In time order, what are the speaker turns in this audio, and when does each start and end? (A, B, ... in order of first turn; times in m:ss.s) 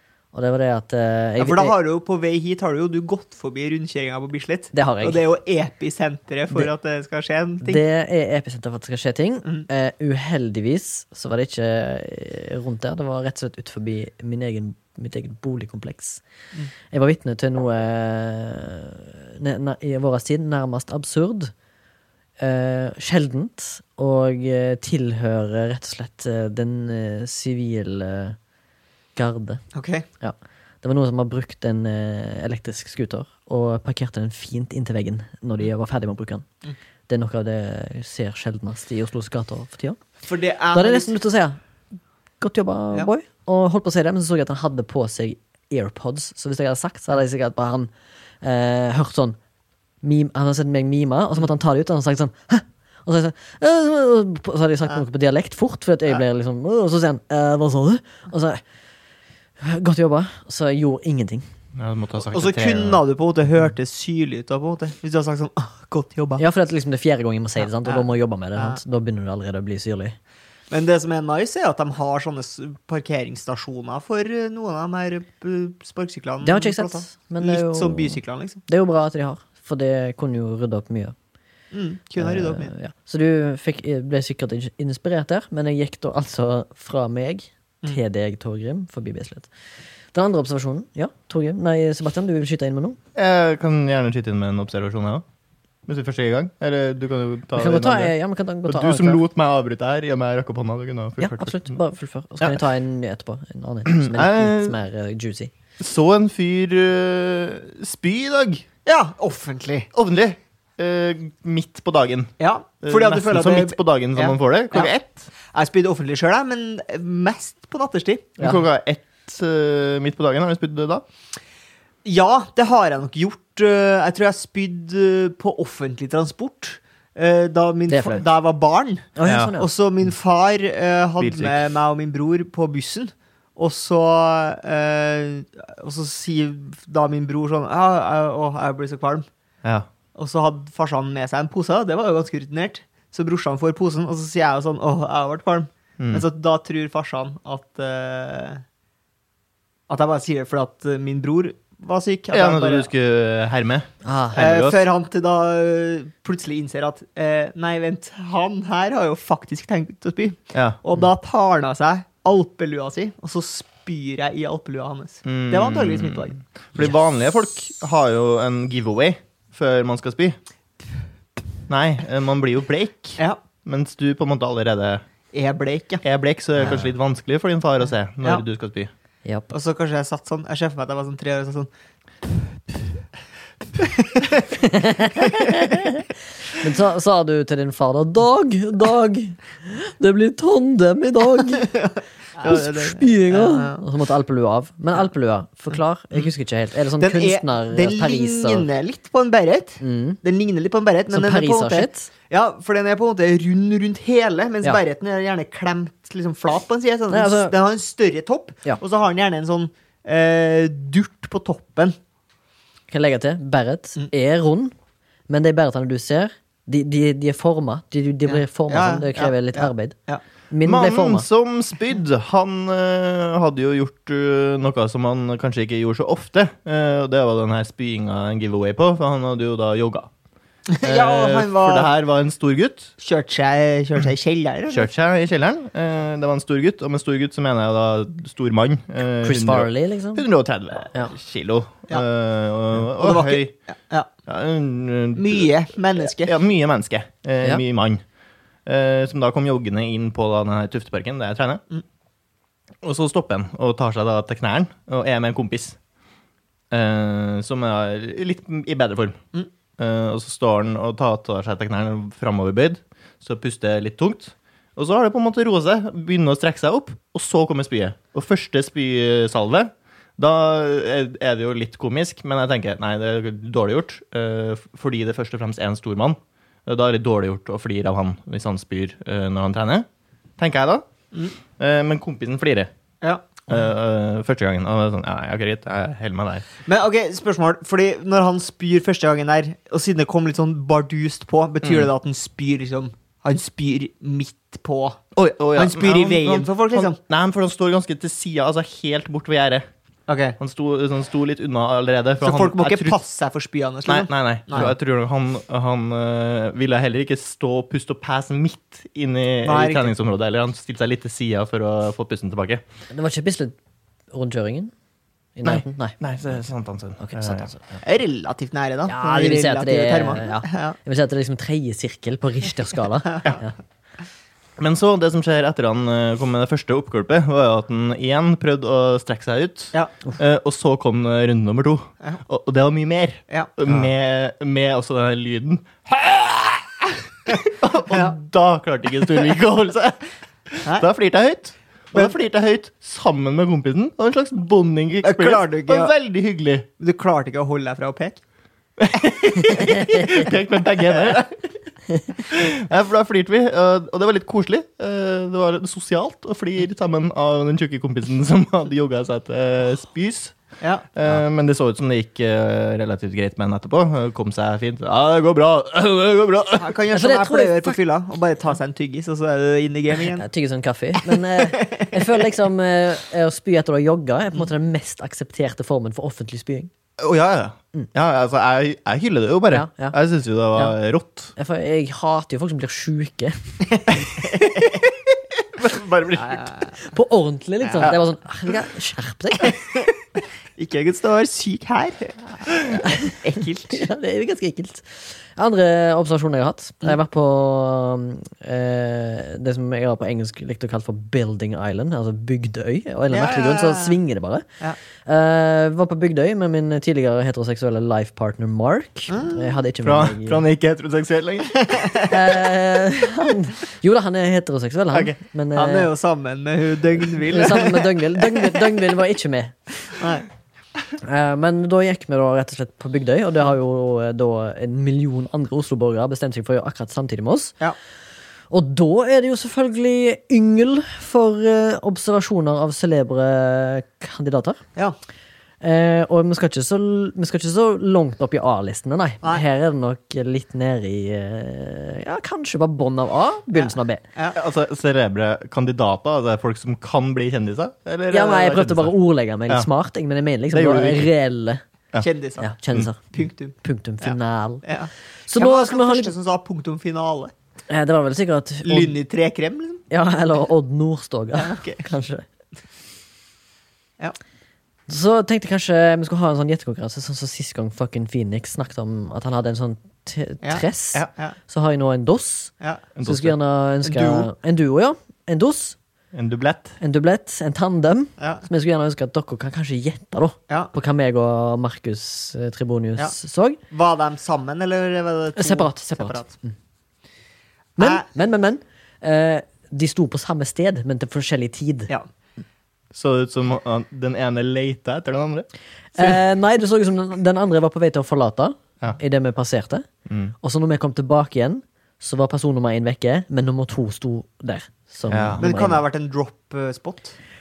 0:00.3-0:01.7 A
0:01.4-0:07.8 B
0:04.7-0:05.2 A
0:07.6-0:16.2 A
0:16.9-0:21.5 A
0:22.4-0:28.4 A
0:29.2-0:29.6 A
0:29.7-0:30.1 B
0:30.2-0:36.4 A
0:37.1-0:40.0 A
0:40.2-0:41.2 B
0:40.7-0:41.6 A
0:42.4-0:47.9 A
0:48.4-0:49.4 A
0:50.0-0:58.6 A
0:59.6-1:01.4 A
1:01.8-1:03.0 C
1:02.3-1:06.4 B
1:06.4-1:10.2 A
1:07.6-1:08.8 B
1:10.7-1:18.6 B
1:16.4-1:21.1 A
1:21.7-1:22.7 B
1:22.2-1:29.5 A
1:30.1-1:33.0 A
1:33.1-1:35.2 C
1:35.9-1:38.1 C
1:37.6-1:39.2 A
1:38.6-1:41.7 C
1:41.2-1:45.5 A
1:43.9-1:44.8 C
1:45.8-1:48.6 C
1:48.8-1:49.9 B
1:49.9-1:55.3 C
1:52.4-1:55.0 B
1:55.5-1:58.3 B
1:58.4-2:01.0 C
2:02.0-2:19.2 B
2:07.9-2:08.2 A
2:09.2-2:09.7 A
2:09.2-2:09.5 C
2:11.2-2:11.7 C
2:19.6-2:19.9 C
2:20.1-2:28.6 B
2:26.0-2:26.2 C
2:29.9-2:32.9 B
2:32.3-2:34.8 C
2:34.0-2:34.4 A
2:34.4-2:46.4 B
2:40.5-2:40.8 C
2:45.2-2:50.4 C
2:51.7-2:55.0 C
2:55.3-2:56.0 B
2:56.0-2:58.9 C
2:56.6-2:56.9 B
2:59.5-3:01.7 B
3:03.8-3:04.4 B
3:04.5-3:11.7 A
3:05.2-3:05.5 B
3:11.5-3:13.9 B
3:12.4-3:18.7 A
3:17.0-3:31.9 B
3:19.8-3:20.2 A
3:21.1-3:22.1 A
3:27.1-3:27.5 A
3:32.9-3:34.7 A
3:35.3-3:40.0 A
3:38.3-3:40.2 B
3:40.5-3:41.2 A
3:40.6-3:50.1 C
3:50.7-3:51.9 B
3:50.8-3:52.9 C
3:53.0-3:54.9 B
3:54.7-4:03.5 C
3:59.2-4:00.2 A
4:02.9-4:04.1 B
4:04.3-4:08.0 C
4:05.2-4:06.4 B
4:08.6-4:11.6 C
4:12.8-4:15.8 C
4:16.7-4:19.2 C
4:19.8-4:39.8 C
4:40.4-4:40.8 C
4:41.6-4:42.7 C
4:43.0-4:43.4 B
4:43.5-4:46.5 C
4:46.6-4:55.0 B
4:51.6-4:51.9 C
4:55.2-4:59.6 C
4:55.6-4:57.0 B
5:00.1-5:00.4 B
5:00.4-5:03.0 C
5:02.2-5:04.7 B
5:03.8-5:12.6 C
5:09.4-5:09.9 B
5:12.9-5:13.6 A
5:14.1-5:14.7 A
5:15.4-5:16.0 A
5:15.4-5:17.6 C
5:17.0-5:17.6 A
5:17.8-5:20.8 B
5:18.9-5:23.6 A
5:24.6-5:46.6 C
5:45.0-5:45.9 B
5:46.8-5:48.2 B
5:48.8-5:51.5 C
5:49.5-5:50.2 A
5:52.2-6:00.4 C
6:00.6-6:00.9 B
6:00.9-6:06.7 C
6:06.6-6:10.3 B
6:06.9-6:07.8 A
6:10.1-6:16.7 A
6:11.1-6:12.0 B
6:17.0-6:21.3 C
6:19.5-6:20.0 A
6:21.4-6:23.6 A
6:25.5-6:26.5 C
6:26.2-6:26.6 B
6:26.8-6:29.6 A
6:27.7-6:27.9 B
6:29.4-6:29.9 B
6:30.6-6:33.8 B
6:32.8-6:33.1 A
6:33.7-6:44.4 A
6:43.1-6:44.0 B
6:45.0-6:50.4 A
6:49.1-6:49.5 B
6:49.8-6:51.9 C
6:51.7-6:52.1 B
6:52.0-6:55.9 A
6:55.5-6:58.8 B
6:57.3-6:59.6 A
6:59.9-7:00.2 B
7:01.0-7:07.5 A
7:08.5-7:14.6 A
7:15.6-7:24.0 A
7:23.5-7:24.4 B
7:24.3-7:28.9 C
7:28.1-7:31.6 A
7:30.5-7:31.1 C
7:32.0-7:32.5 B
7:32.4-7:34.6 A
7:33.1-7:37.3 B
7:35.3-7:36.1 A
7:37.7-7:39.0 A
7:38.6-7:39.8 B
7:39.9-7:42.2 A
7:41.4-7:41.8 B
7:44.9-7:52.5 A
7:50.4-7:51.4 B
7:53.0-7:53.3 C
7:53.0-7:55.8 A
7:53.8-7:54.3 B
7:56.1-7:56.8 C
7:56.8-8:03.6 A
7:58.2-7:58.4 B
8:03.7-8:06.3 B
8:05.4-8:06.5 A
8:07.8-8:11.9 A
8:07.8-8:08.0 B
8:12.9-8:15.5 C
8:15.9-8:19.9 A
8:20.1-8:20.3 C
8:20.4-8:25.8 A
8:25.1-8:25.4 C
8:25.4-8:27.1 B